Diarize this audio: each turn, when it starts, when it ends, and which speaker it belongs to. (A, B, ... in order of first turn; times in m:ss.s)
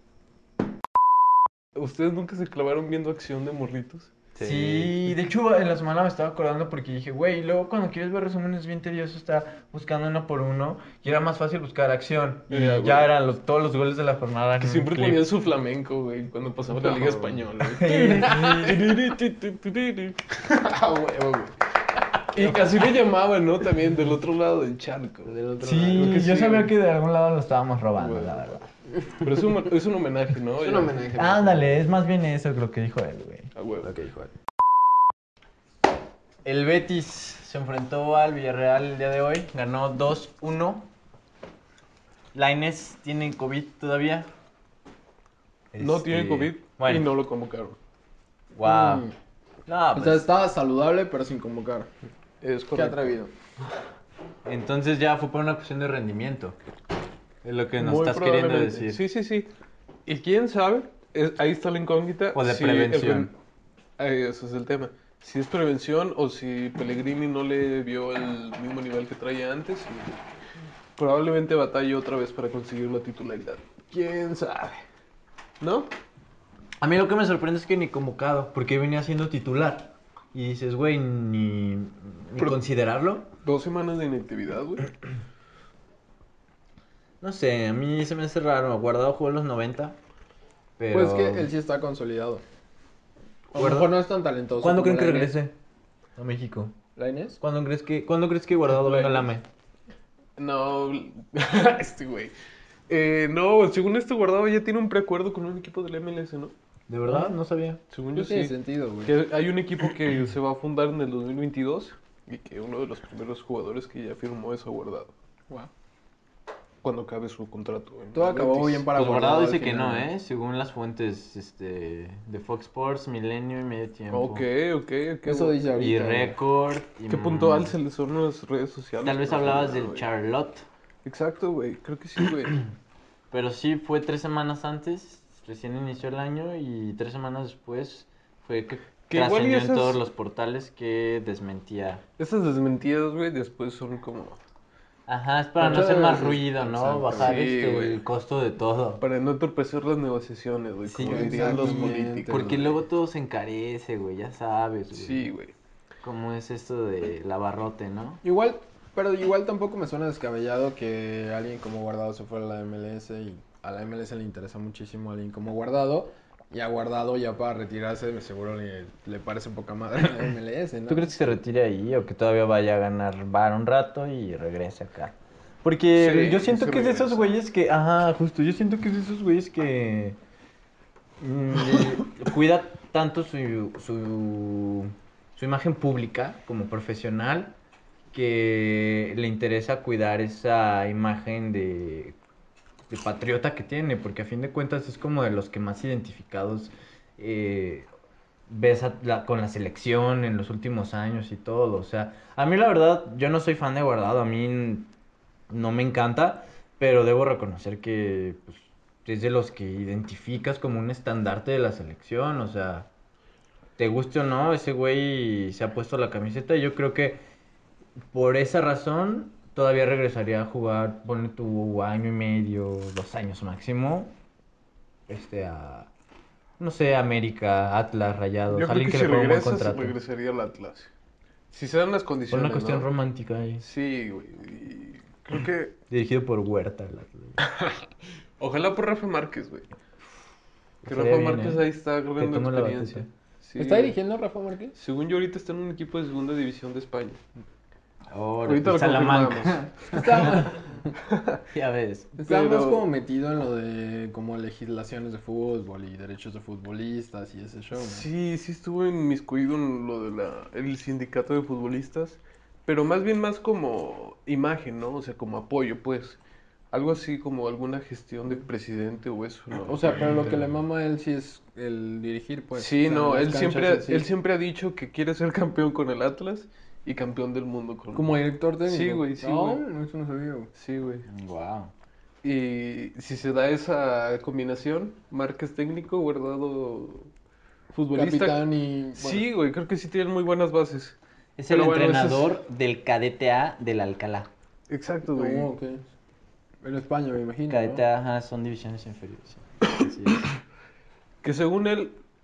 0:01.7-0:05.0 A
0:04.4-0:15.2 B
0:12.5-0:13.1 A
0:14.6-0:21.5 A
0:16.8-0:17.4 C
0:17.7-0:18.9 B
0:18.0-0:18.4 C
0:22.3-0:25.3 A
0:22.4-0:22.6 B
0:25.2-0:26.2 C
0:25.6-0:28.6 B
0:25.9-0:26.7 A
0:27.9-0:28.6 A
0:29.2-0:31.0 A
0:30.6-0:31.8 C
0:31.2-0:33.5 B
0:33.5-0:33.9 A
0:33.8-0:34.3 C
0:36.4-0:40.9 B
0:42.3-0:44.3 B
0:45.7-0:47.1 B
0:45.8-0:47.8 A
0:48.5-0:49.0 B
0:48.6-0:49.1 C
0:49.7-0:50.2 B
0:49.9-0:51.9 C
0:52.4-0:53.2 A
0:52.7-0:53.3 C
0:54.4-0:56.6 B
0:57.4-0:59.0 B
0:57.8-0:59.5 A
1:00.0-1:03.3 A
1:02.3-1:03.3 B
1:04.0-1:10.2 A
1:11.0-1:14.8 A
1:15.6-1:15.9 A
1:16.8-1:23.3 B
1:23.4-1:24.9 A
1:27.2-1:30.0 B
1:30.8-1:31.5 B
1:30.9-1:32.4 C
1:33.5-1:34.0 B
1:33.5-1:35.4 C
1:34.6-1:35.5 B
1:36.2-1:36.7 B
1:37.0-1:37.4 C
1:37.4-1:39.4 B
1:38.7-1:39.2 A
1:40.4-1:42.3 A
1:42.9-1:46.5 A
1:46.9-1:47.8 B
1:47.9-1:55.1 A
1:48.1-1:49.1 C
1:56.8-1:58.9 A
1:58.1-2:00.1 C
1:58.9-2:04.4 B
2:04.1-2:05.6 A
2:05.2-2:06.4 C
2:05.7-2:07.8 B
2:07.1-2:10.0 A
2:09.0-2:10.6 B
2:11.0-2:12.6 A
2:13.3-2:22.0 B
2:19.1-2:20.0 A
2:22.2-2:24.4 A
2:25.1-2:29.0 B
2:25.6-2:27.4 C
2:25.7-2:26.3 A
2:27.1-2:28.0 A
2:29.0-2:32.6 A
2:30.8-2:35.3 B
2:31.0-2:32.7 C
2:34.9-2:35.5 A
2:36.0-2:38.2 B
2:38.2-2:51.4 C
2:50.9-3:00.2 B
2:55.9-2:57.4 A
3:01.2-3:07.5 B
3:08.1-3:12.2 B
3:12.9-3:17.9 B
3:18.5-3:24.9 B
3:25.5-3:32.9 B
3:33.8-3:37.2 B
3:38.1-3:44.1 B
3:45.1-3:45.9 B
3:46.6-3:50.0 B
3:48.5-3:50.9 A
3:51.5-3:52.9 A
3:52.3-3:53.6 B
3:53.6-3:55.7 A
3:55.9-3:57.4 B
3:58.4-3:59.7 A
4:00.8-4:03.1 B
4:00.8-4:04.0 A
4:03.6-4:04.7 C
4:04.8-4:07.2 A
4:08.1-4:10.4 B
4:08.4-4:09.7 A
4:09.9-4:10.7 C
4:11.1-4:11.4 A
4:11.5-4:12.1 B
4:12.2-4:12.9 A
4:12.2-4:18.0 C
4:17.7-4:26.2 A
4:26.7-4:30.3 A
4:29.6-4:34.1 C
4:32.5-4:39.6 A
4:37.9-4:40.5 C
4:40.6-4:41.1 A
4:41.1-4:41.7 B
4:42.2-4:47.1 A
4:47.7-4:51.0 A
4:47.9-4:49.3 C
4:51.4-4:54.3 B
4:51.5-4:52.3 A
4:54.7-4:55.5 A
4:55.1-4:55.8 C
4:56.6-4:57.8 C
4:57.5-5:00.3 B
5:01.2-5:01.9 A